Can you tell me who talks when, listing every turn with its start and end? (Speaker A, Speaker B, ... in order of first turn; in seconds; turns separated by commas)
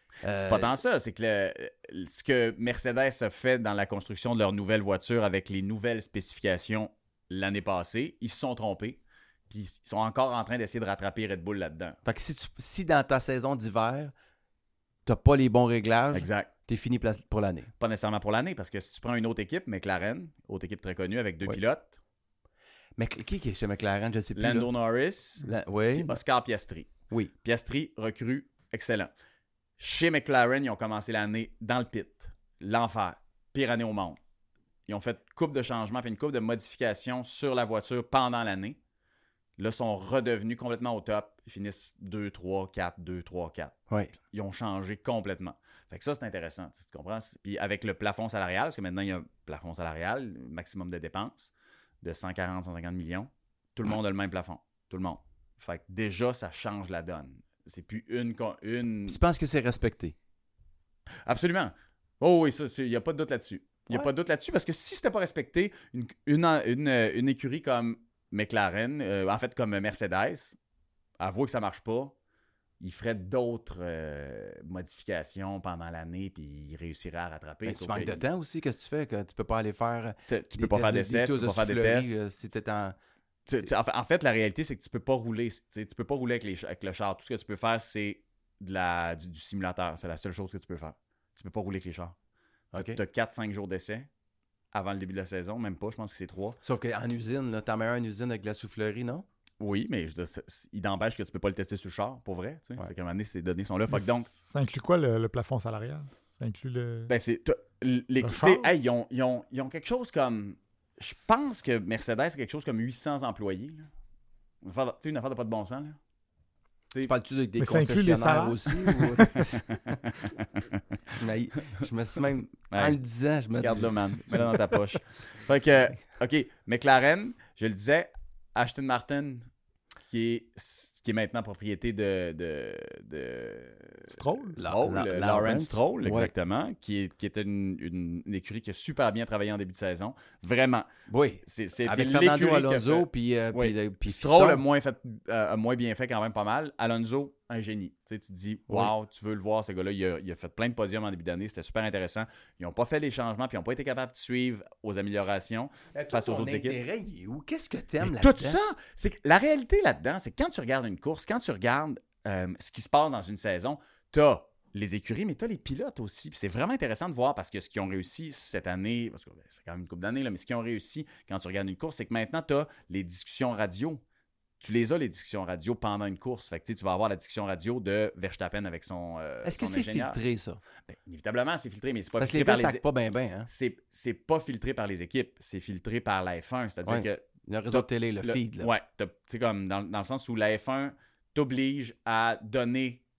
Speaker A: 0.2-0.8, Speaker B: 0.4-12.0, Speaker A: 12.1-14.1, Speaker A: 15.1-17.7, Speaker B: 16.1-16.5, Speaker B: 17.8-22.0, Speaker A: 23.0-24.7, Speaker B: 24.4-26.9, Speaker A: 25.4-26.2, Speaker B: 27.4-29.1, Speaker B: 29.8-34.2, Speaker B: 34.9-38.8, Speaker B: 39.6-43.8, Speaker B: 44.3-59.2, Speaker A: 59.1-60.1, Speaker B: 61.2-70.6, Speaker B: 71.2-72.1, Speaker B: 72.8-78.2, Speaker A: 77.7-83.0, Speaker B: 80.3-82.2, Speaker B: 83.5-92.2, Speaker A: 92.7-93.0, Speaker B: 92.7-94.1, Speaker B: 94.7-96.6, Speaker A: 96.6-99.3, Speaker B: 99.6-104.3, Speaker C: 103.9-107.1, Speaker B: 107.1-113.9, Speaker C: 108.2-108.7, Speaker B: 114.6-116.0, Speaker A: 117.0-119.6, Speaker C: 117.6-119.5, Speaker B: 119.4-120.8, Speaker A: 121.2-124.7, Speaker B: 123.6-129.5, Speaker B: 130.1-140.9, Speaker C: 134.1-134.6, Speaker A: 134.6-136.3, Speaker A: 141.1-144.6, Speaker B: 141.4-156.8, Speaker A: 155.9-158.6, Speaker B: 158.0-174.0, Speaker B: 174.6-180.2, Speaker A: 179.4-180.6, Speaker B: 180.9-182.8, Speaker A: 182.2-183.5, Speaker B: 183.5-193.0, Speaker A: 186.8-188.7